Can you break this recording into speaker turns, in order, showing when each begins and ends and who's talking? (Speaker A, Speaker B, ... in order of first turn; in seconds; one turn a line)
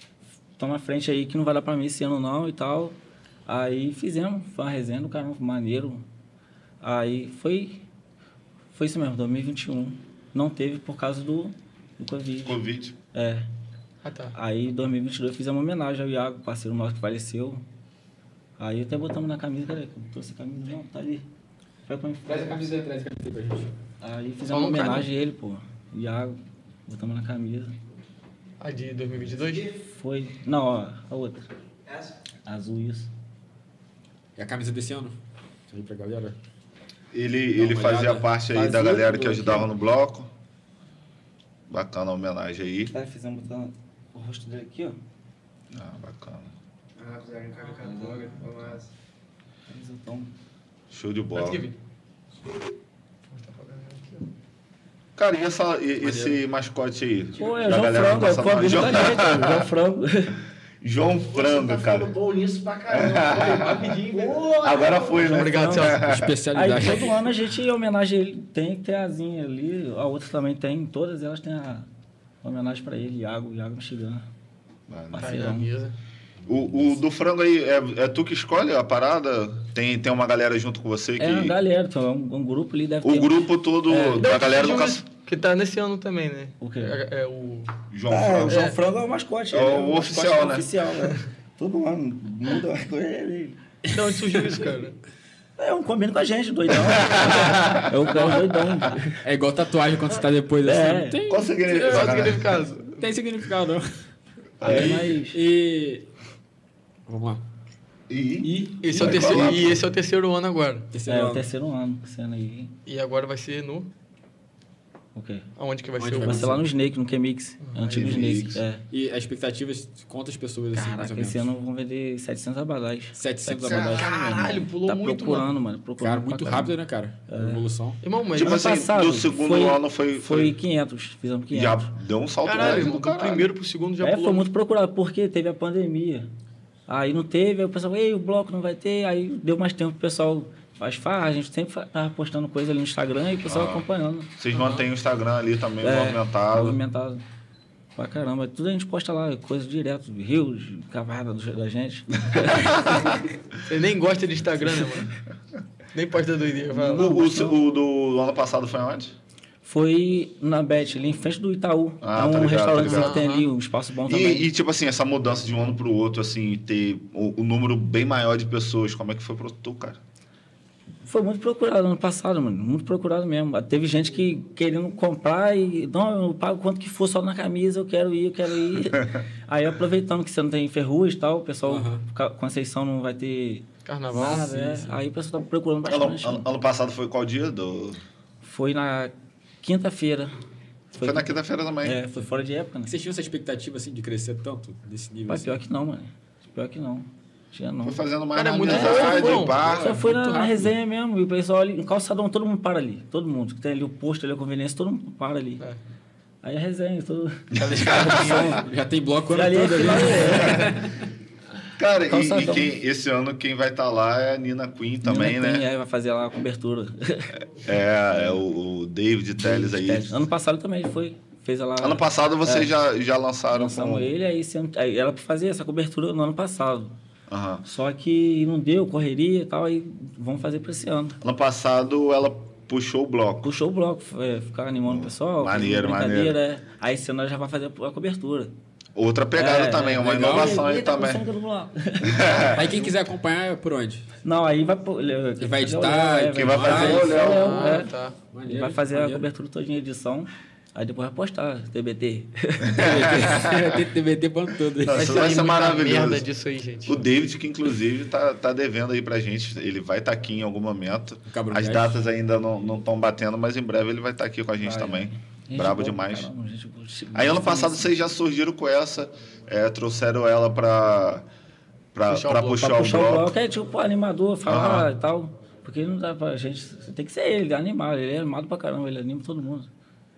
Speaker A: 0.6-6.0
Speaker A: 6.8-7.8
Speaker A: 8.7-13.4
Speaker B: 12.4-13.0
Speaker C: 14.0-14.3
Speaker A: 14.3-17.6
Speaker A: 18.6-21.3
Speaker A: 21.9-22.8
Speaker D: 22.2-23.7
Speaker A: 24.0-27.7
Speaker C: 24.5-25.1
Speaker C: 28.6-29.7
Speaker A: 29.8-31.5
Speaker A: 32.5-33.1
Speaker D: 34.4-35.1
Speaker D: 35.7-36.4
Speaker B: 37.1-40.3
Speaker D: 37.6-38.3
Speaker A: 38.5-39.7
Speaker B: 41.7-42.9
Speaker A: 42.9-45.0
Speaker B: 45.7-46.5
Speaker E: 47.0-48.9
Speaker C: 47.6-47.8
Speaker A: 47.8-48.4
Speaker A: 49.7-50.3
Speaker B: 50.9-51.6
Speaker C: 51.3-51.8
Speaker C: 53.3-54.2
Speaker B: 55.1-59.7
Speaker D: 56.0-56.4
Speaker A: 57.4-60.4
Speaker B: 60.8-62.1
Speaker E: 61.3-65.1
Speaker B: 62.9-64.0
Speaker B: 64.6-66.3
Speaker A: 65.0-71.9
Speaker C: 65.3-66.0
Speaker D: 66.0-67.3
Speaker A: 72.4-74.2
Speaker B: 74.9-75.3
Speaker A: 75.1-75.7
Speaker C: 75.2-75.9
Speaker B: 76.5-81.6
Speaker A: 81.2-84.3
Speaker B: 83.0-85.0
Speaker C: 84.2-87.7
Speaker A: 86.6-87.0
Speaker B: 87.9-88.7
Speaker A: 88.1-93.6
Speaker C: 88.5-88.8
Speaker B: 89.5-90.7
Speaker C: 93.9-95.0
Speaker A: 95.6-99.2
Speaker B: 96.8-98.0
Speaker D: 99.2-102.2
Speaker A: 100.6-101.2
Speaker B: 101.3-102.8
Speaker C: 101.8-102.8
Speaker D: 103.0-103.9
Speaker B: 104.6-105.0
Speaker A: 104.6-105.4
Speaker D: 104.6-106.0
Speaker D: 107.1-107.4
Speaker B: 108.1-109.8
Speaker D: 108.4-109.6
Speaker C: 108.8-110.9
Speaker D: 110.9-111.5
Speaker A: 111.1-112.7
Speaker C: 112.8-113.9
Speaker A: 115.1-115.4
Speaker C: 115.5-116.5
Speaker D: 116.0-116.6
Speaker A: 116.2-118.8
Speaker C: 117.6-118.3
Speaker B: 117.9-118.6
Speaker D: 118.9-121.5
Speaker A: 120.7-126.7
Speaker D: 123.1-124.0
Speaker B: 123.7-124.2
Speaker C: 124.0-125.5
Speaker D: 126.0-128.0
Speaker A: 127.3-127.6
Speaker C: 128.0-128.8
Speaker B: 128.3-130.6
Speaker A: 128.4-131.9
Speaker B: 131.5-133.5
Speaker C: 132.4-134.5
Speaker A: 132.6-132.8
Speaker A: 134.0-136.3
Speaker A: 136.9-144.3
Speaker B: 143.5-143.8
Speaker B: 144.4-146.8
Speaker C: 144.5-144.9
Speaker A: 145.8-147.2
Speaker A: 147.9-152.8
Speaker B: 152.6-152.9
Speaker C: 153.6-155.1
Speaker C: 155.9-157.1
Speaker A: 156.7-157.6
Speaker B: 156.9-159.1
Speaker A: 159.6-164.5
Speaker B: 162.0-163.1
Speaker C: 162.8-163.5
Speaker B: 164.1-170.0
Speaker A: 171.0-186.5
Speaker D: 181.6-182.1
Speaker C: 183.8-184.5
Speaker D: 184.2-185.0
Speaker B: 185.8-188.0
Speaker A: 188.4-190.3
Speaker B: 190.9-192.0
Speaker A: 190.9-192.9
Speaker D: 192.9-195.6
Speaker A: 195.3-198.0
Speaker B: 197.8-199.9
Speaker C: 198.3-199.6
Speaker A: 198.7-205.6
Speaker D: 199.2-200.7
Speaker A: 206.4-208.6
Speaker C: 207.6-208.5
Speaker B: 207.9-208.4
Speaker D: 208.0-210.8
Speaker A: 209.3-210.7
Speaker B: 211.8-215.7
Speaker A: 212.1-212.7
Speaker A: 215.0-217.3
Speaker B: 217.5-220.2
Speaker A: 219.4-222.7
Speaker B: 221.8-224.1
Speaker A: 223.5-226.9
Speaker B: 227.3-227.6
Speaker A: 227.6-231.2
Speaker B: 231.2-233.5
Speaker A: 233.4-238.5
Speaker B: 234.8-236.4
Speaker B: 238.9-241.2
Speaker A: 239.3-242.4
Speaker D: 239.9-240.6
Speaker B: 242.0-242.7
Speaker D: 242.5-244.1
Speaker A: 244.2-247.9
Speaker D: 245.4-247.2
Speaker B: 246.3-247.7
Speaker C: 247.0-248.2
Speaker D: 248.2-249.2
Speaker A: 248.4-252.9
Speaker B: 252.7-253.8
Speaker D: 252.8-255.2
Speaker B: 254.8-256.3
Speaker C: 254.9-257.0
Speaker B: 256.9-266.3
Speaker D: 261.3-262.0
Speaker A: 264.6-268.0
Speaker B: 267.1-271.2
Speaker B: 271.9-273.3
Speaker C: 272.1-272.9
Speaker A: 272.6-279.7
Speaker B: 274.4-274.9